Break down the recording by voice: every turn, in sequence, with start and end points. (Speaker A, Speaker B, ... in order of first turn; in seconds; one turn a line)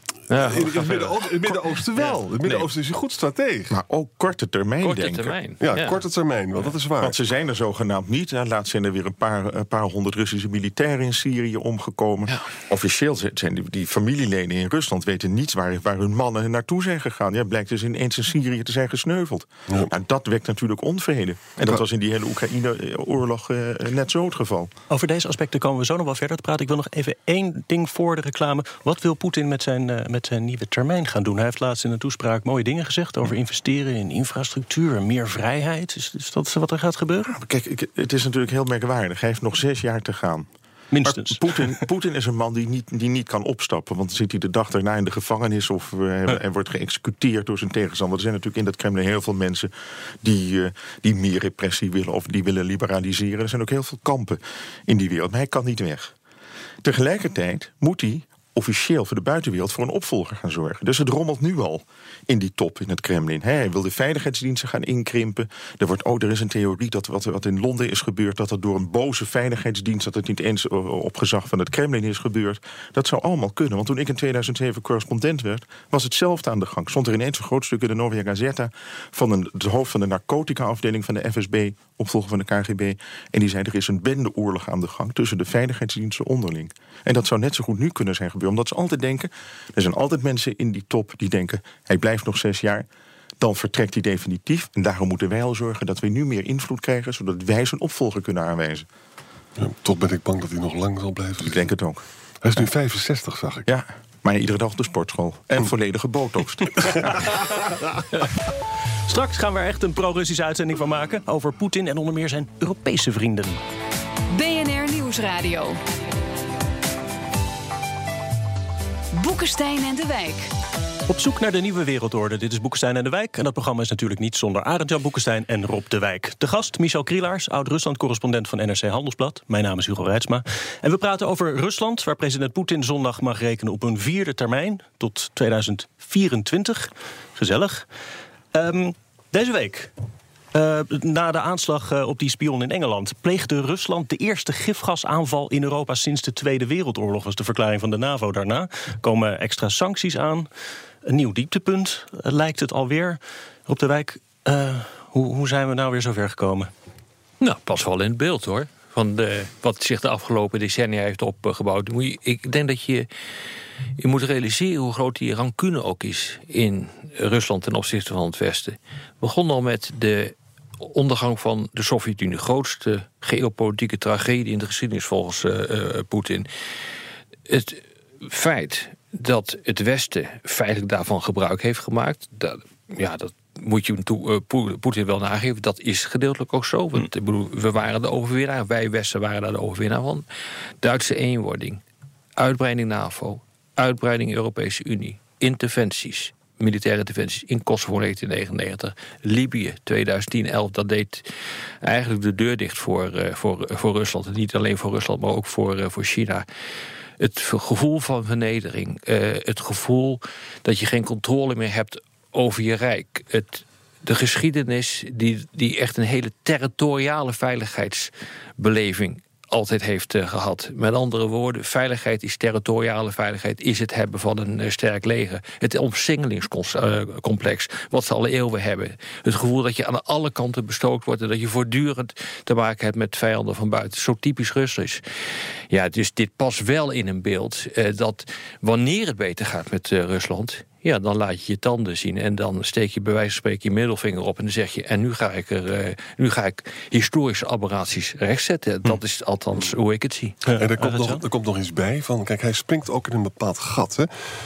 Speaker A: 0.3-1.3
Speaker B: 0.3-3.8
Speaker C: 2.4-2.7
Speaker C: 3.7-5.4
Speaker A: 4.8-6.0
Speaker B: 5.6-7.2
Speaker C: 7.0-24.7
Speaker D: 24.9-37.3
Speaker C: 37.2-40.5
Speaker D: 40.9-41.8
Speaker C: 41.0-56.1
Speaker C: 56.8-92.9
Speaker C: 93.4-98.9
Speaker B: 99.6-101.7
Speaker C: 101.4-102.0
Speaker B: 102.4-103.7
Speaker C: 103.7-107.1
Speaker B: 106.8-107.7
Speaker D: 109.1-113.6
Speaker E: 114.3-115.8
Speaker E: 119.1-120.5
Speaker D: 121.1-137.9
Speaker D: 138.5-139.9
Speaker D: 140.5-150.5
Speaker D: 151.1-156.7
Speaker A: 157.4-163.1
Speaker A: 164.0-176.5
Speaker A: 177.5-190.2
Speaker A: 190.8-191.8
Speaker A: 192.4-201.3
Speaker A: 201.8-206.4
Speaker A: 207.2-235.0
Speaker A: 235.7-250.4
Speaker D: 250.5-251.2
Speaker B: 250.5-254.1